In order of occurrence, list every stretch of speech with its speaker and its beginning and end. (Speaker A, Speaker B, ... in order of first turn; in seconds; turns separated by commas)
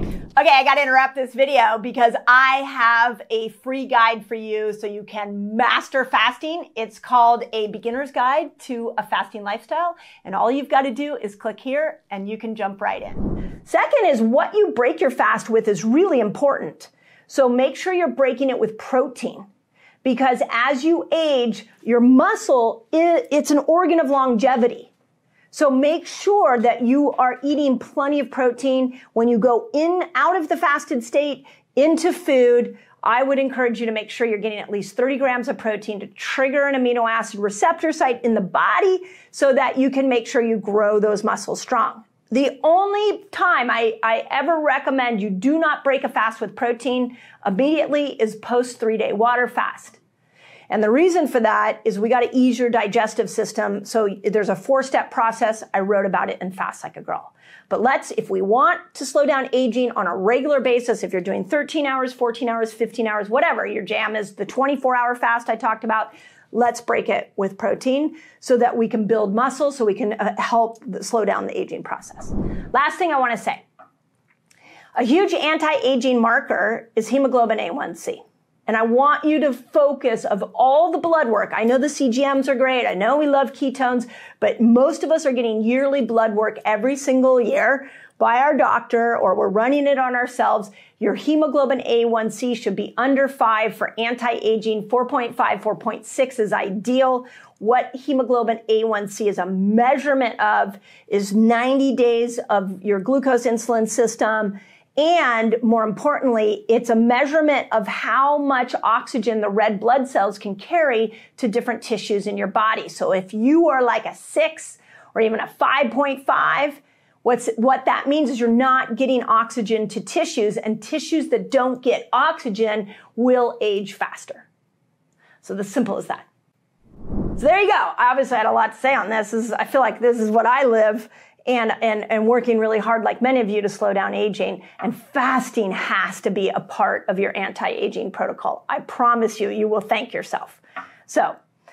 Speaker A: 0.4-19.4, Speaker A: 20.0-24.9, Speaker A: 25.5-50.0, Speaker A: 50.7-73.6, Speaker A: 74.9-124.5, Speaker A: 125.4-126.3, Speaker A: 127.4-141.3